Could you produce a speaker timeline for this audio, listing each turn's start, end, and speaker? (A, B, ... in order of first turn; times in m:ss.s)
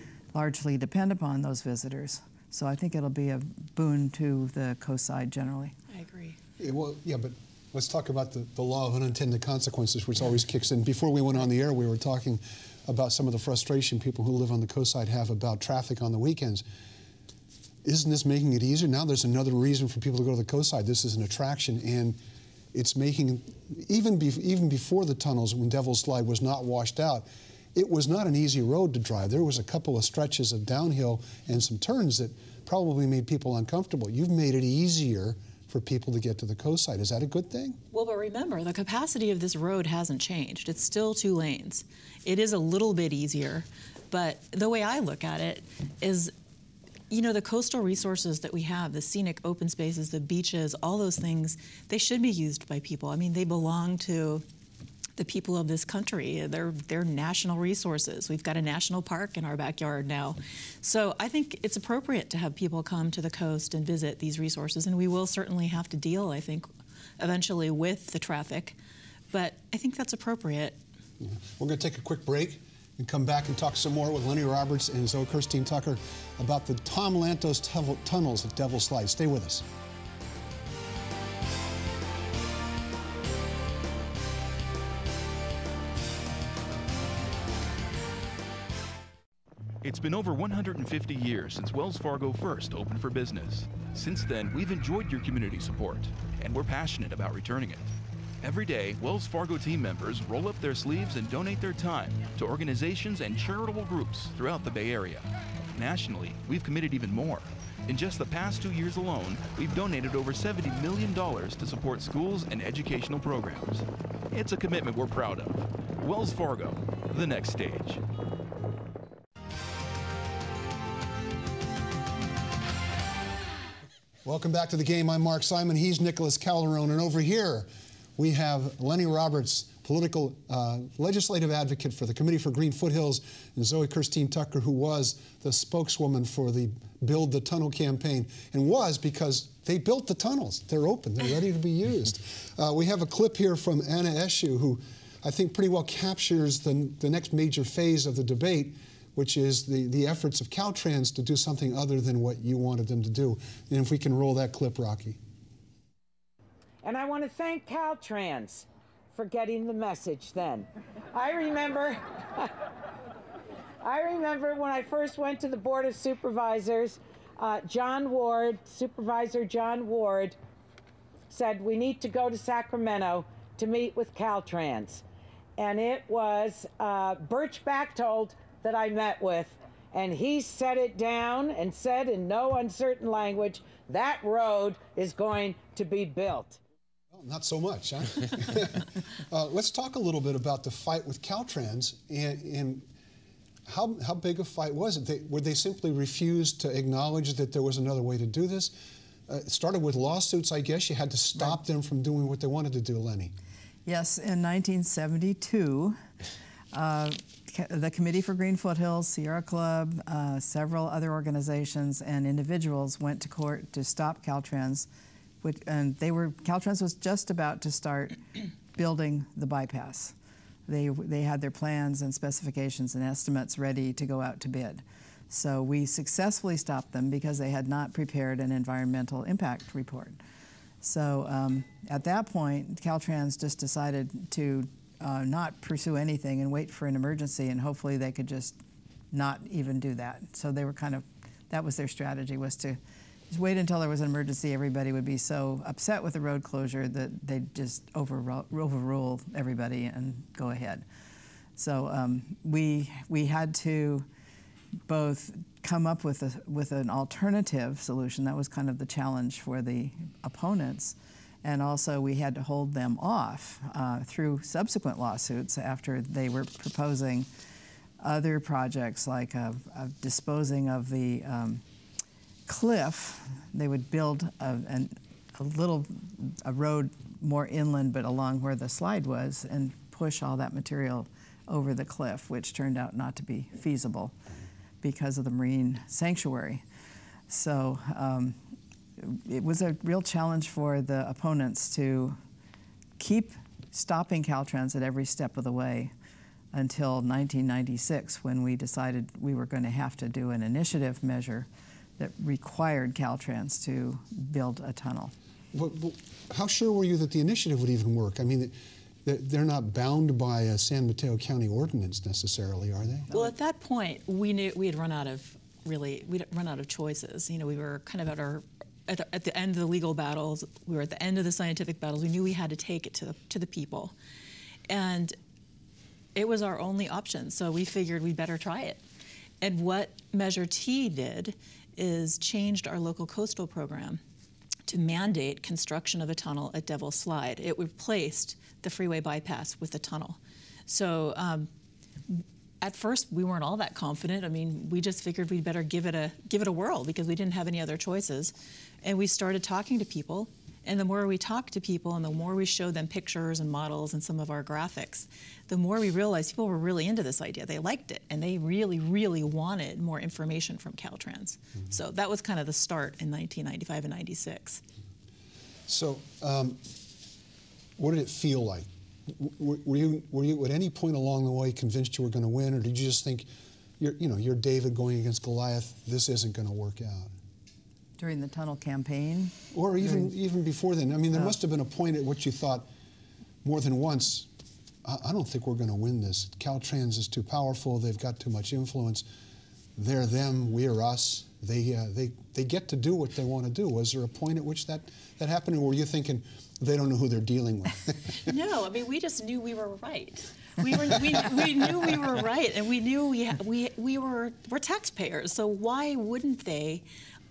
0:00.3-0:05.8 A
0:05.9-0:06.4 B
0:06.6-0:16.6 C
0:17.8-0:22.2 C
0:22.7-0:37.8 C
0:37.9-0:46.3 B
0:47.1-0:54.4 B
0:55.2-1:08.8 B
1:09.3-1:10.8 B
1:11.2-1:19.7 C
1:29.8-1:58.0 D
2:04.2-2:35.2 C
2:36.8-2:42.5 E
2:43.8-2:50.4 E
2:51.3-2:55.0 E
2:55.6-3:06.6 E
3:07.1-3:12.9 C
3:13.7-3:18.7 C
3:19.3-3:23.3 C
3:23.9-3:26.0 A
3:26.7-3:34.9 A
3:35.4-3:40.1 A
3:40.7-3:50.2 A
3:50.8-3:58.6 A
3:59.1-4:02.8 A
4:03.3-4:10.8 A
4:11.6-4:14.1 A
4:14.9-4:27.3 A
4:28.0-4:31.6 A
4:32.5-4:44.2 A
4:44.8-4:46.6 A
4:47.3-4:48.4 A
4:49.0-4:52.2 A
4:53.0-4:55.9 A
4:56.5-5:05.1 A
5:05.5-5:13.1 C
5:13.1-5:23.9 B
5:24.7-5:25.2 B
5:26.2-5:28.8 B
5:29.4-5:34.0 B
5:34.7-5:41.5 B
5:42.1-6:04.6 B
6:05.7-6:06.6 C
6:07.8-6:13.3 C
6:13.8-6:17.1 C
6:18.0-6:20.1 A
6:19.5-6:22.7 C
6:23.4-6:24.3 C
6:24.8-6:29.0 C
6:29.8-6:38.3 C
6:38.3-6:46.9 B